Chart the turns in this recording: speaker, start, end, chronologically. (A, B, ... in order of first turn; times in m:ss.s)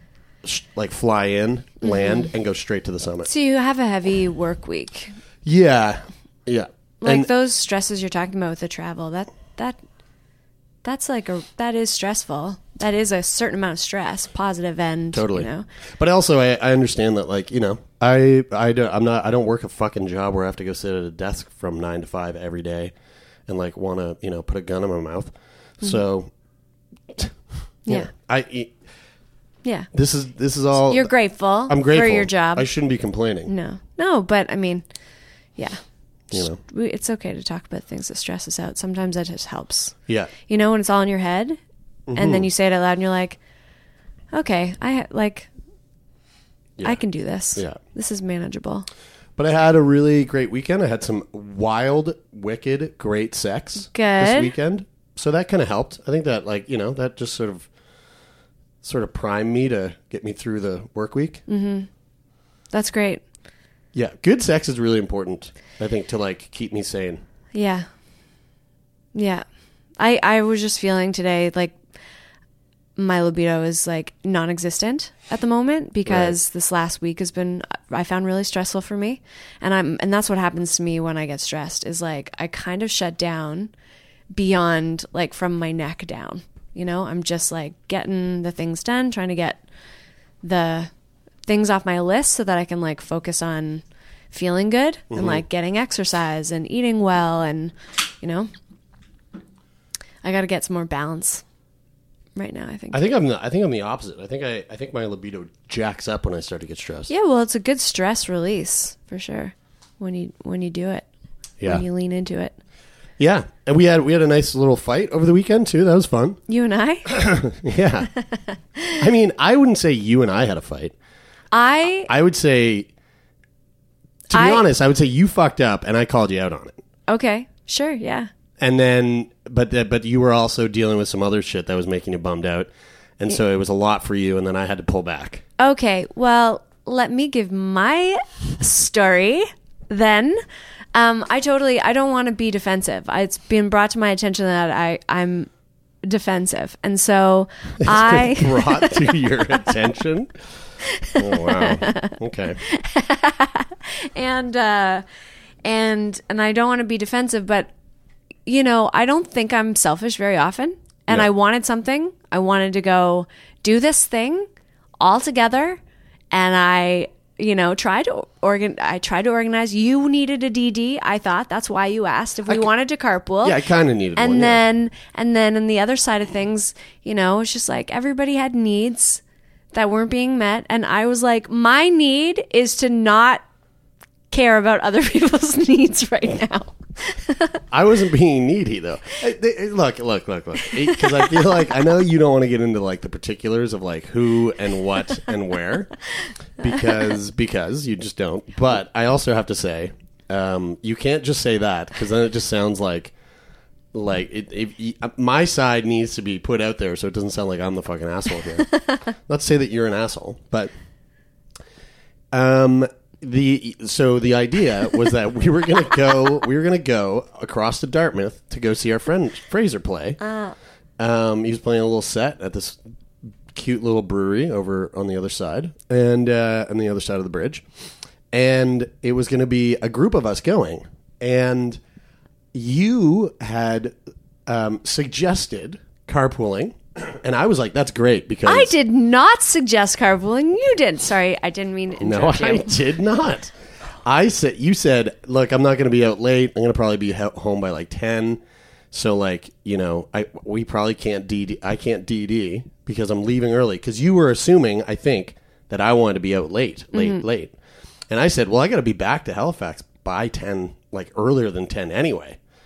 0:00.4-0:03.3 A
0:01.8-0:02.3 B
0:03.2-0:05.2 B
0:05.4-0:07.3 A
0:07.0-0:09.8 B
0:10.8-0:15.7 B
0:15.1-0:22.9 A
0:23.5-0:26.3 A
0:27.1-0:28.8 A
0:29.6-0:29.9 B
0:29.9-0:33.5 A
0:30.8-0:32.7 B
0:33.5-0:34.9 B
0:35.6-0:41.6 B
0:36.3-0:36.6 A
0:42.1-0:42.5 A
0:42.1-0:43.4 B
0:44.3-0:45.5 B
0:46.8-0:47.8 A
0:46.8-0:48.9 B
0:49.4-0:57.7 A
0:53.9-0:54.6 B
0:58.8-1:01.4 A
1:01.5-1:01.9 B
1:02.7-1:03.2 B
1:03.9-1:07.2 A
1:07.5-1:07.9 B
1:09.1-1:09.4 B
1:10.0-1:11.8 B
1:13.0-1:23.7 B
1:16.1-1:16.4 A
1:24.3-1:29.6 B
1:30.4-1:30.9 B
1:31.4-1:38.5 B
1:35.1-1:35.4 A
1:40.2-1:41.4 B
1:42.4-1:43.1 B
1:42.9-1:47.1 A
1:47.1-1:51.1 B
1:51.6-1:51.8 A
1:51.7-1:52.6 B
1:53.2-1:56.4 A
1:56.5-1:57.2 B
1:57.1-1:58.1 A
1:58.2-1:59.0 B
1:59.0-2:01.0 A
2:01.5-2:02.1 B
2:02.1-2:02.9 A
2:04.3-2:06.8 A
2:04.3-2:04.6 B
2:07.1-2:08.3 B
2:08.6-2:15.4 A
2:15.6-2:20.4 B
2:20.9-2:25.5 B
2:26.0-2:28.9 B
2:27.8-2:30.4 A
2:31.1-2:32.2 B
2:31.2-2:32.6 A
2:32.7-2:35.0 B
2:35.6-2:37.7 B
2:38.5-2:44.5 B
2:45.0-2:45.8 B
2:46.3-2:53.6 B
2:53.4-2:54.6 A
2:54.2-2:59.2 B
2:59.7-3:03.4 B
3:04.3-3:07.6 B
3:07.7-3:16.0 A
3:16.6-3:23.1 A
3:23.9-3:30.7 A
3:32.3-3:40.2 A
3:40.2-3:40.6 B
3:41.0-3:47.7 A
3:48.3-3:51.8 A
3:52.5-3:58.7 A
3:58.5-4:02.7 B
4:02.0-4:17.6 A
4:16.9-4:17.2 B
4:18.1-4:22.4 A